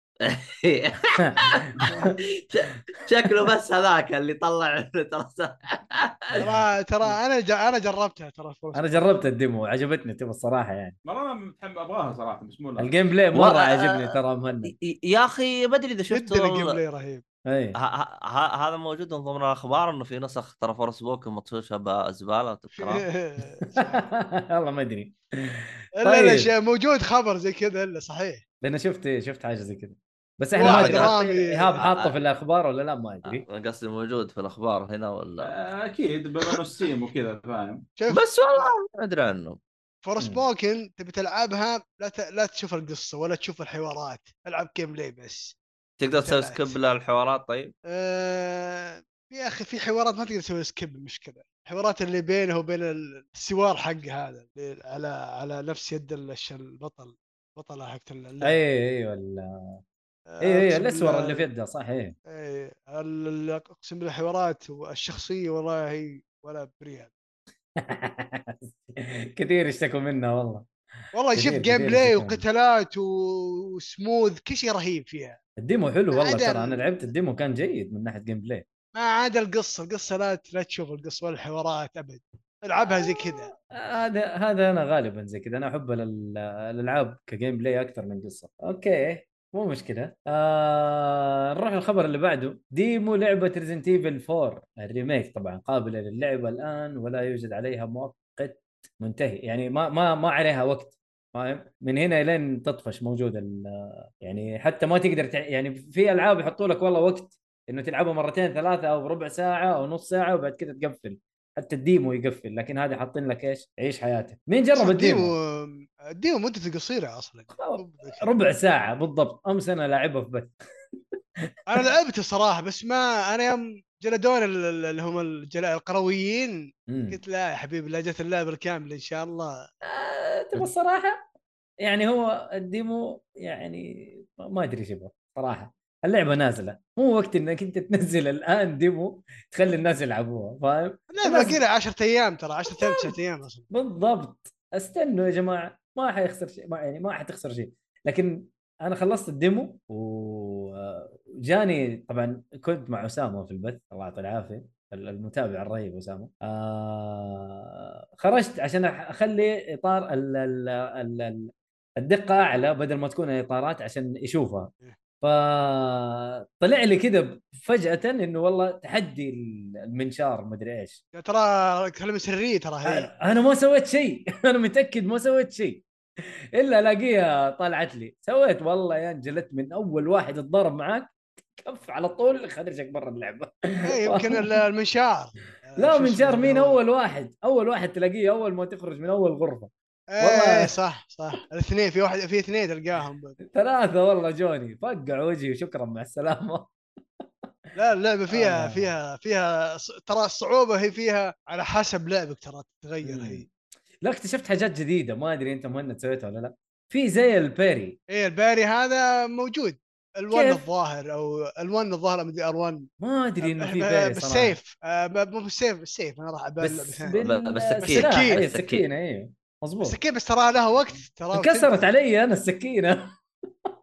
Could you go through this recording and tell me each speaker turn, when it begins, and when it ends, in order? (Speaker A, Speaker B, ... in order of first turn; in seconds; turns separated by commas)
Speaker A: 0.2-6.2, Speaker B: 1.2-1.9, Speaker C: 6.4-9.0, Speaker B: 8.7-10.9, Speaker D: 11.1-12.9, Speaker B: 12.8-14.7, Speaker A: 13.3-16.8, Speaker C: 16.1-17.2, Speaker B: 17.4-17.8, Speaker A: 17.7-23.1, Speaker C: 22.8-24.1, Speaker B: 23.7-26.5, Speaker C: 26.0-28.4, Speaker B: 28.6-33.4, Speaker C: 30.6-31.8, Speaker A: 30.6-31.2, Speaker A: 31.8-32.2, Speaker A: 33.2-35.5, Speaker D: 35.4-37.9, Speaker C: 38.0-38.7, Speaker A: 38.1-39.6, Speaker C: 40.0-45.6, Speaker B: 40.2-40.4, Speaker A: 46.0-47.7, Speaker C: 46.2-46.8, Speaker C: 47.9-58.5, Speaker B: 58.4-59.8, Speaker C: 60.3-61.5, Speaker B: 60.4-62.1, Speaker C: 62.3-67.1, Speaker B: 67.8-70.7, Speaker C: 71.1-75.4, Speaker B: 71.3-72.4, Speaker B: 75.6-78.6, Speaker C: 76.1-76.8, Speaker C: 78.9-83.5, Speaker B: 83.7-115.3, Speaker C: 114.8-118.3, Speaker B: 117.5-120.5, Speaker C: 121.7-129.6, Speaker B: 126.9-127.2, Speaker B: 129.8-131.2, Speaker B: 131.8-141.6, Speaker C: 141.1-143.7, Speaker B: 143.7-164.7, Speaker B: 165.2-171.0, Speaker C: 171.1-173.1, Speaker B: 172.8-175.8, Speaker B: 176.6-184.6, Speaker C: 183.8-186.8, Speaker B: 185.8-190.7, Speaker C: 190.1-193.3, Speaker B: 193.4-196.7, Speaker C: 197.7-203.4, Speaker B: 198.3-198.9, Speaker B: 203.0-203.5, Speaker B: 204.0-208.0, Speaker C: 208.1-212.9, Speaker B: 210.3-210.6, Speaker B: 213.0-214.6, Speaker C: 213.4-217.2, Speaker B: 216.6-220.0, Speaker A: 217.2-218.8, Speaker C: 217.8-218.4, Speaker C: 219.8-221.9, Speaker B: 221.3-223.1